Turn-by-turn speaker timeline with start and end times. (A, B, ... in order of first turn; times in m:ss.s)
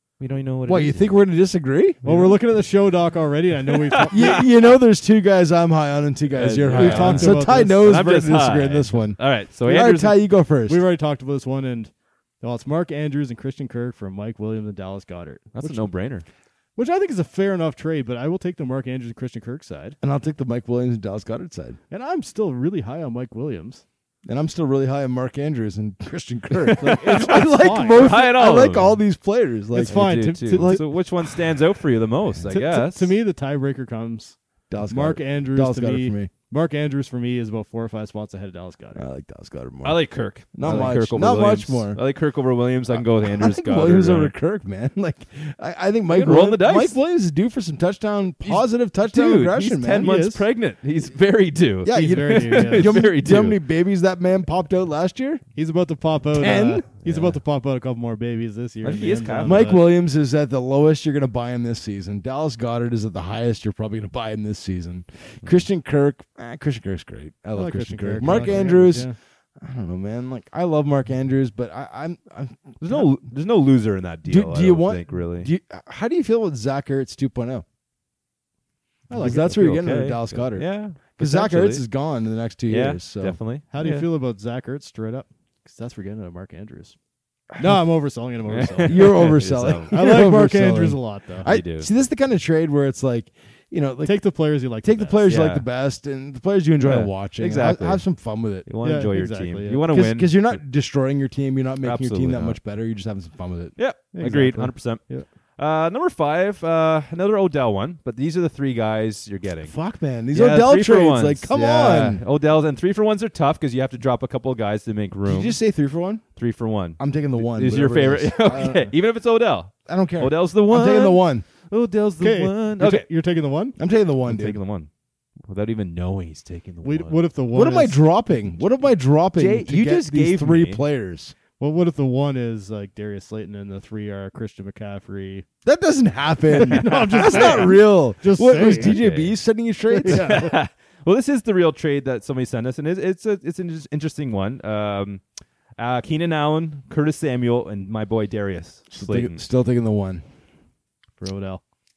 0:00.2-0:01.2 A
0:00.7-0:02.0 B
0:02.0-0:02.4 A
0:02.0-0:04.4 C
0:03.9-0:04.4 A
0:04.1-0:10.8 B
0:06.3-0:10.2 A
0:06.6-0:08.0 C
0:10.7-0:15.9 C
0:15.6-0:16.3 A
0:16.8-0:20.0 C
0:20.0-0:21.8 B
0:21.9-0:23.8 C
0:24.2-0:31.4 B
0:26.7-0:27.3 A
0:26.8-0:28.2 C
0:28.0-0:29.0 A
0:29.7-0:30.9 C
0:29.9-0:33.2 A
0:32.5-0:39.0 C
0:34.7-0:36.3 B
0:39.0-0:42.0 B
0:39.8-0:44.3 A
0:42.9-0:50.1 B
0:46.1-0:47.0 A
0:48.4-0:53.6 A
0:49.9-0:50.5 C
0:51.8-0:55.4 B
0:51.9-0:53.1 C
0:55.6-0:59.8 C
0:56.4-0:56.9 B
0:57.0-0:57.3 A
0:58.8-0:59.7 A
0:59.4-1:13.2 B
1:07.5-1:09.2 C
1:12.8-1:15.5 A
1:14.3-1:17.6 B
1:19.1-1:19.6 C
1:19.1-1:21.9 A
1:19.2-1:23.4 B
1:22.7-1:24.1 A
1:23.7-1:27.0 C
1:27.6-1:29.4 C
1:28.5-1:30.0 A
1:28.9-1:34.2 B
1:29.9-1:31.5 C
1:31.4-1:31.9 A
1:34.0-1:35.2 C
1:34.8-1:38.7 B
1:35.2-1:35.7 A
1:36.8-1:38.1 A
1:38.6-1:40.6 A
1:38.8-1:39.8 C
1:39.9-1:43.8 B
1:41.8-1:42.6 A
1:43.8-1:45.0 A
1:44.1-1:45.3 C
1:45.6-1:49.7 A
1:49.6-1:52.2 B
1:50.3-1:55.6 A
1:55.3-1:56.3 B
1:56.4-2:03.1 A
1:57.0-1:58.9 B
1:59.9-2:01.5 B
2:02.2-2:03.8 C
2:03.8-2:04.6 B
2:04.3-2:04.9 A
2:05.5-2:07.2 A
2:06.8-2:08.0 C
2:07.5-2:11.4 B
2:09.4-2:10.8 A
2:11.6-2:15.5 C
2:15.6-2:20.3 B
2:16.6-2:19.0 C
2:17.2-2:17.6 A
2:18.8-2:19.3 A
2:20.0-2:25.2 A
2:20.0-2:20.6 C
2:25.8-2:29.4 A
2:28.9-2:30.2 B
2:31.2-2:31.6 C